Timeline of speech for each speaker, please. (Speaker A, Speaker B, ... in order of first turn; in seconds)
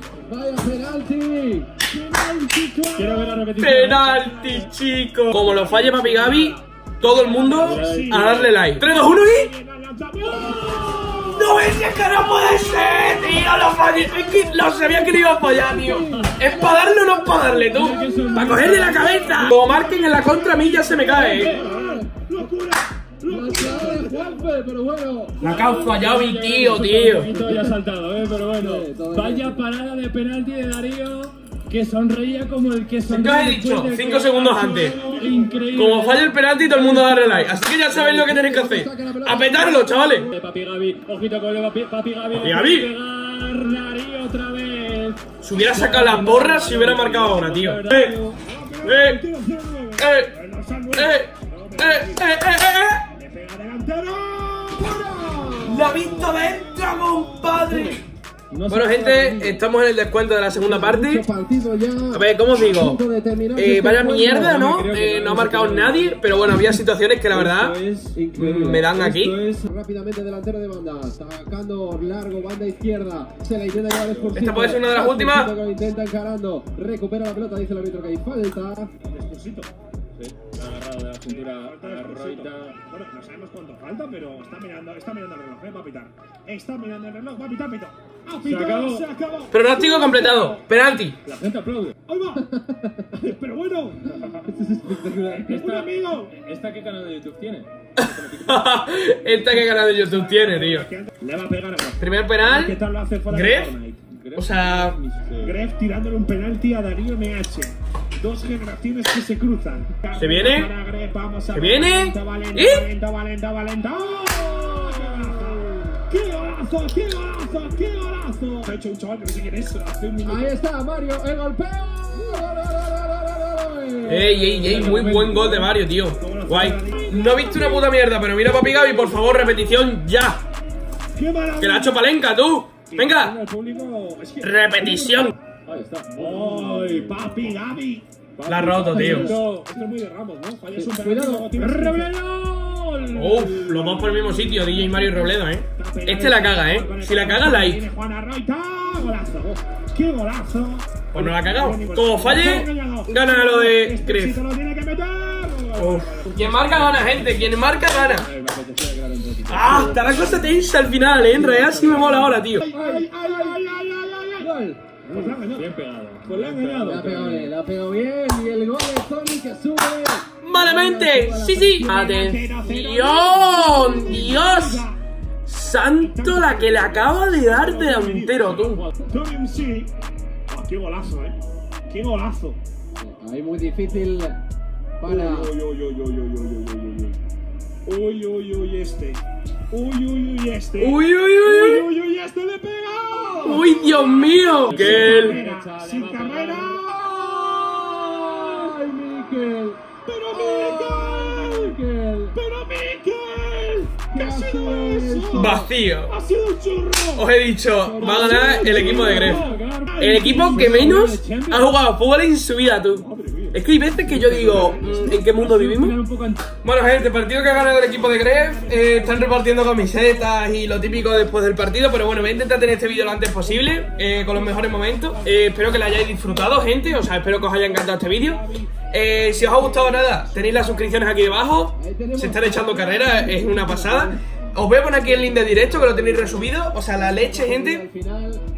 Speaker A: 0.2-1.7, 14.0-19.2, 21.1-22.1, 23.3-25.7, 27.2-27.8, 28.6-29.6, 37.8-40.2, 60.5-64.7, 68.2-68.7, 69.7-78.9, 92.5-93.1, 94.8-95.2, 120.2-125.2, 138.9-139.3, 140.7-142.1, 161.3-163.6, 164.4-165.4, 166.9-172.3, 173.7-174.2, 183.0-184.4, 185.0-185.5, 198.1-199.8, 200.3-202.4, 204.1-205.7, 207.8-209.6, 231.8-234.2, 234.7-238.4
Speaker B: 1.9-3.5, 4.3-4.7, 5.4-11.8, 18.1-24.4, 34.6-35.6, 48.4-52.3, 53.1-57.9, 79.1-79.7, 81.3-90.6, 92.1-92.5, 93.1-94.5, 95.3-96.3, 99.6-104.0, 105.4-120.5, 124.6-127.9, 131.1-132.0, 132.9-135.3, 136.2-138.1, 139.1-142.1, 145.8-157.0, 162.6-164.5, 165.1-165.7, 166.2-167.0, 171.9-175.0, 176.0-178.4, 179.1-179.9, 180.5-181.4, 181.9-182.6, 185.1-187.1, 187.9-198.4, 200.1-201.8, 202.3-207.3, 208.0-209.0, 210.0-210.8, 214.5-215.2, 217.3-231.5
Speaker C: 2.9-4.4, 7.5-8.6, 10.4-11.3, 17.7-19.5, 21.3-21.7, 25.4-37.6, 40.3-48.4, 58.5-59.6, 64.0-66.2, 67.3-69.7, 73.9-74.5, 80.2-82.8, 88.4-89.1, 91.2-92.0, 94.4-98.7, 104.1-105.6, 133.4-134.1, 135.7-137.6, 138.4-139.9, 141.6-145.2, 156.6-160.6, 161.7-162.3, 165.5-167.5, 178.4-179.0, 185.8-187.1, 194.7-197.3, 208.4-211.7, 213.0-216.5
Speaker D: 3.6-9.5, 11.2-21.6, 25.4-27.3, 33.1-35.0, 35.7-40.3, 42.3-42.9, 45.4-48.2, 48.8-49.2, 50.0-50.3, 50.9-53.1, 55.6-58.0, 58.7-61.2, 62.1-63.0, 63.5-67.8, 68.4-69.4, 74.3-75.5, 89.5-91.2, 98.0-100.9, 102.0-102.8, 103.3-103.7, 104.3-105.0, 110.2-110.7, 111.5-112.9, 124.1-130.4, 131.6-133.3, 134.4-135.3, 138.5-139.3, 143.1-147.8, 151.1-154.4, 155.8-158.3, 159.5-162.7, 170.4-174.8, 175.4-178.8, 190.8-191.9, 193.4-195.4, 205.3-206.2, 207.1-209.5, 210.0-216.0, 216.6-237.8